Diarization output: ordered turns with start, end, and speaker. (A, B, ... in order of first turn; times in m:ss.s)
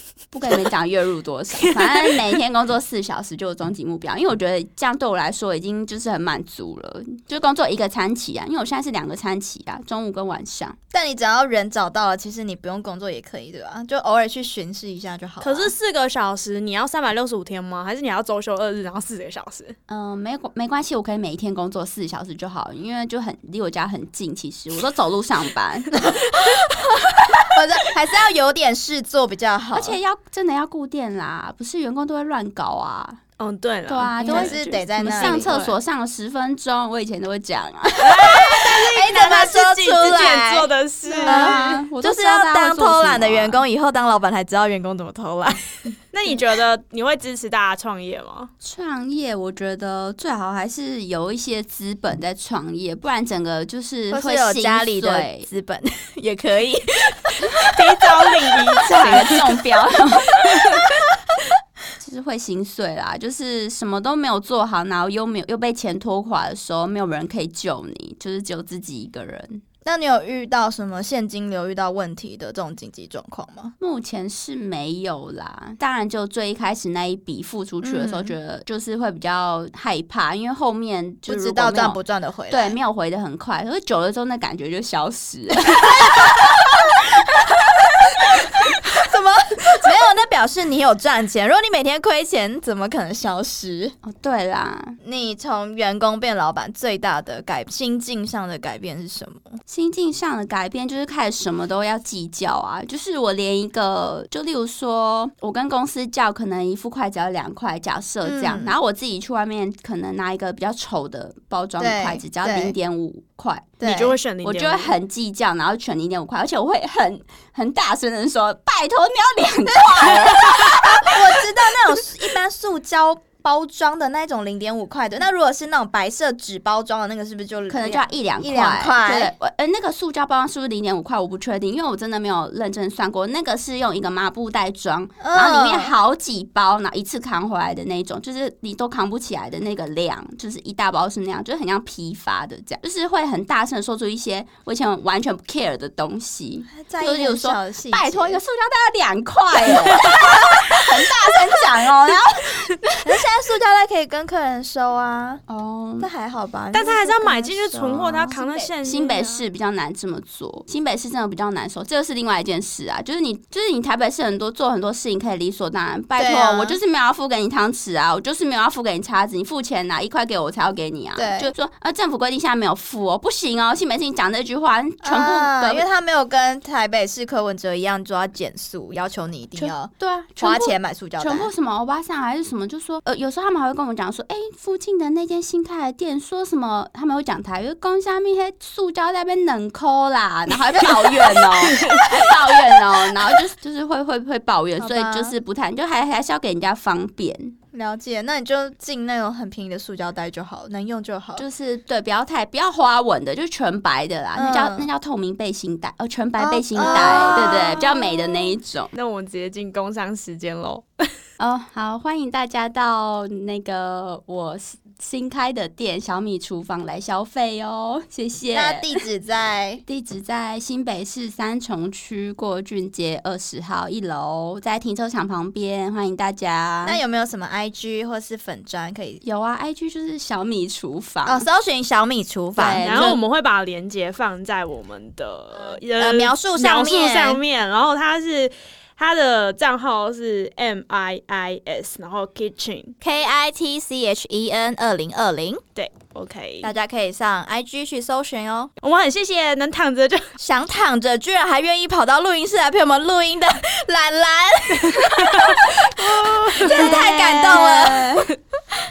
0:00.3-0:10.8 A
0:01.6-0:02.4 B
0:10.9-0:15.7 C
0:15.4-0:19.8 B
0:19.9-0:26.0 A
0:26.0-0:30.0 C
0:29.7-0:33.2 A
0:33.4-0:34.6 B
0:33.9-0:38.4 A
0:34.2-0:35.7 C
0:35.1-0:35.7 B
0:38.0-0:41.6 B
0:38.2-0:45.6 C
0:41.2-0:43.6 A
0:46.1-0:48.5 B
0:48.6-0:55.5 A
0:54.1-0:58.1 C
0:57.6-0:59.6 B
0:58.7-0:59.2 C
0:58.9-1:00.4 A
1:00.3-1:00.9 B
1:00.5-1:00.8 C
1:02.0-1:09.6 A
1:09.8-1:13.7 C
1:13.8-1:22.0 A
1:17.8-1:18.4 C
1:21.3-1:22.8 C
1:22.5-1:27.4 A
1:25.7-1:33.9 C
1:34.0-1:35.0 A
1:35.0-1:39.6 C
1:39.7-1:53.7 A
1:48.2-1:48.8 C
1:51.8-1:52.7 C
1:53.8-1:54.2 C
1:53.8-1:54.9 B
1:54.4-2:01.9 A
1:59.9-2:09.3 C
2:07.7-2:33.0 A
2:15.2-2:15.9 C
2:26.8-2:28.4 C
2:33.0-2:35.4 C
2:35.5-2:36.1 A
2:36.0-2:38.7 C
2:36.7-2:39.4 B
2:38.8-2:55.8 A
2:46.2-2:46.8 C
2:51.2-2:51.5 C
2:55.0-3:01.5 C
2:59.6-3:17.6 A
3:11.6-3:12.3 B
3:14.8-3:15.4 C
3:17.7-3:21.4 C
3:21.4-3:28.9 A
3:24.4-3:24.9 C
3:26.4-3:27.9 C
3:26.8-3:31.0 B
3:31.4-3:39.0 A
3:38.5-3:39.8 C
3:39.9-3:47.0 A
3:46.8-3:49.2 C
3:49.2-3:51.4 A
3:51.2-3:53.2 C
3:52.6-3:53.2 A
3:52.8-4:03.0 B
3:56.0-3:57.4 C
4:03.0-4:05.6 C
4:05.7-4:06.7 B
4:06.6-4:08.7 C
4:08.8-4:10.3 B
4:10.4-4:18.3 C
4:14.8-4:17.8 B
4:16.7-4:17.2 A